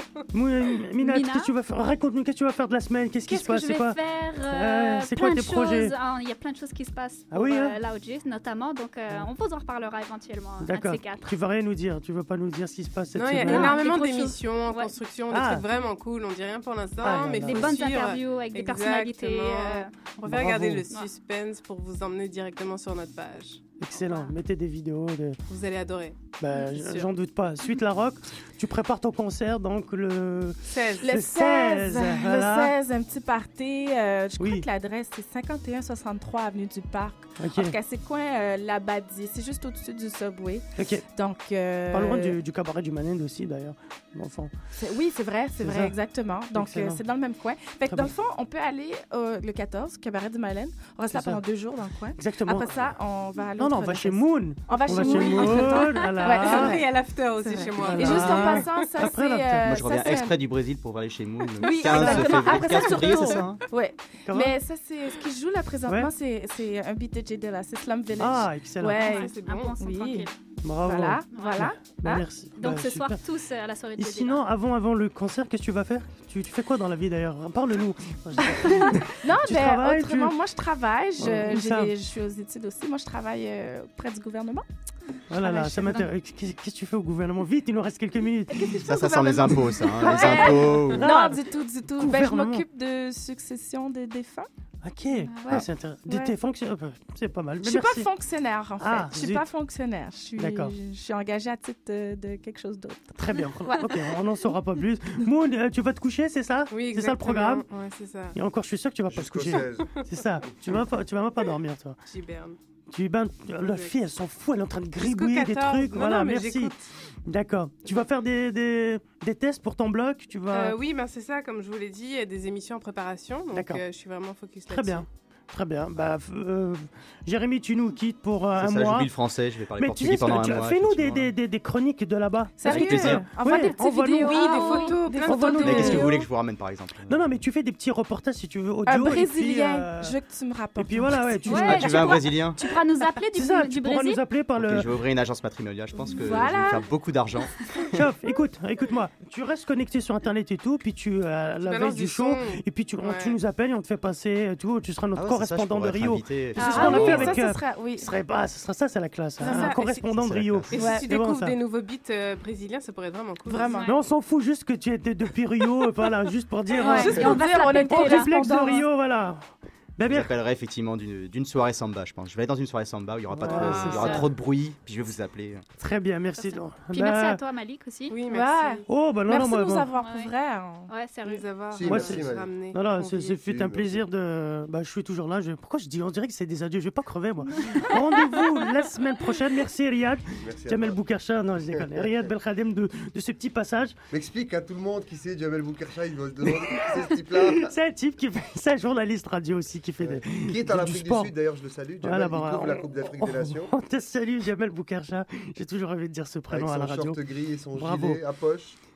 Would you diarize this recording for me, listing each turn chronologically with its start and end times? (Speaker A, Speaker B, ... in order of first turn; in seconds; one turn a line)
Speaker A: 0.3-5.9
Speaker B: 1.0-1.5
Speaker B: 3.3-11.3
Speaker A: 7.3-7.8
Speaker A: 10.6-13.8
Speaker C: 13.1-23.6
Speaker B: 13.2-14.9
Speaker A: 15.3-15.7
Speaker A: 17.0-17.9
Speaker B: 17.1-19.9
Speaker A: 20.3-20.8
Speaker A: 23.8-25.4
Speaker B: 24.0-24.3
Speaker C: 25.5-26.2
Speaker A: 26.4-32.8
Speaker C: 26.7-27.1
Speaker C: 30.7-31.0
Speaker D: 31.0-42.4
Speaker A: 34.4-34.7
Speaker A: 37.4-37.8
Speaker A: 40.8-41.0
Speaker A: 41.9-44.5
Speaker D: 44.8-60.4
Speaker A: 45.6-46.0
Speaker A: 46.5-47.0
Speaker A: 51.1-51.4
Speaker A: 52.2-52.9
Speaker A: 53.6-56.8
Speaker C: 54.8-58.9
Speaker A: 57.8-59.8
Speaker E: 59.6-63.6
Speaker D: 61.6-70.3
Speaker A: 61.7-63.6
Speaker A: 64.3-64.6
Speaker A: 65.9-66.1
Speaker A: 68.2-69.2
Speaker B: 69.0-70.3
Speaker C: 69.0-69.8
Speaker A: 70.6-73.2
Speaker D: 70.8-72.3
Speaker B: 71.3-71.7
Speaker B: 72.6-74.4
Speaker A: 74.0-80.4
Speaker D: 78.5-84.7
Speaker A: 81.2-81.9
Speaker A: 85.3-88.9
Speaker D: 85.4-86.0
Speaker B: 85.5-86.1
Speaker D: 88.5-94.5
Speaker E: 88.8-91.1
Speaker A: 90.0-91.4
Speaker B: 90.3-90.5
Speaker A: 92.0-92.7
Speaker A: 94.8-98.1
Speaker B: 95.2-95.6
Speaker D: 96.1-96.3
Speaker D: 97.6-104.0
Speaker A: 98.8-99.5
Speaker A: 100.4-100.7
Speaker A: 103.2-107.7
Speaker C: 106.7-108.4
Speaker A: 108.3-112.0
Speaker F: 109.1-110.5
Speaker C: 112.1-112.6
Speaker A: 112.9-116.8
Speaker C: 113.6-114.0
Speaker C: 115.0-116.8
Speaker A: 117.3-120.8
Speaker C: 120.5-125.1
Speaker A: 123.5-123.8
Speaker A: 124.7-129.1
Speaker E: 128.6-131.3
Speaker A: 129.8-134.6
Speaker D: 132.6-136.3
Speaker E: 132.7-133.3
Speaker B: 133.7-135.1
Speaker C: 134.2-136.0
Speaker A: 135.2-136.1
Speaker E: 135.6-137.3
Speaker A: 137.1-140.2
Speaker D: 138.8-142.4
Speaker A: 140.8-142.1
Speaker B: 141.5-144.2
Speaker E: 141.7-142.6
Speaker A: 143.3-144.9
Speaker E: 144.6-147.6
Speaker D: 146.0-146.9
Speaker A: 147.9-161.6
Speaker C: 151.6-153.4
Speaker E: 155.2-157.4
Speaker B: 156.6-157.2
Speaker D: 156.6-158.1
Speaker C: 159.4-160.1
Speaker E: 160.1-160.9
Speaker D: 160.7-161.1
Speaker C: 160.7-163.8
Speaker D: 163.5-163.9
Speaker B: 163.7-164.0
Speaker A: 163.8-170.3
Speaker B: 166.8-168.8
Speaker D: 166.8-168.9
Speaker E: 170.1-175.6
Speaker A: 173.3-174.3
Speaker C: 173.5-174.3
Speaker A: 175.8-177.4
Speaker B: 176.4-178.2
Speaker C: 178.1-178.8
Speaker D: 178.3-180.9
Speaker A: 178.9-179.9
Speaker B: 180.0-180.3
Speaker B: 180.9-181.5
Speaker C: 181.3-183.4
Speaker F: 181.7-182.6
Speaker A: 181.9-194.0
Speaker F: 183.4-184.0
Speaker B: 187.8-188.1
Speaker F: 190.4-191.0
Speaker F: 191.7-192.3
Speaker F: 194.1-197.7
Speaker A: 197.0-201.3
Speaker F: 200.0-203.7
Speaker A: 202.0-207.2
Speaker F: 206.5-208.8
Speaker A: 207.8-208.2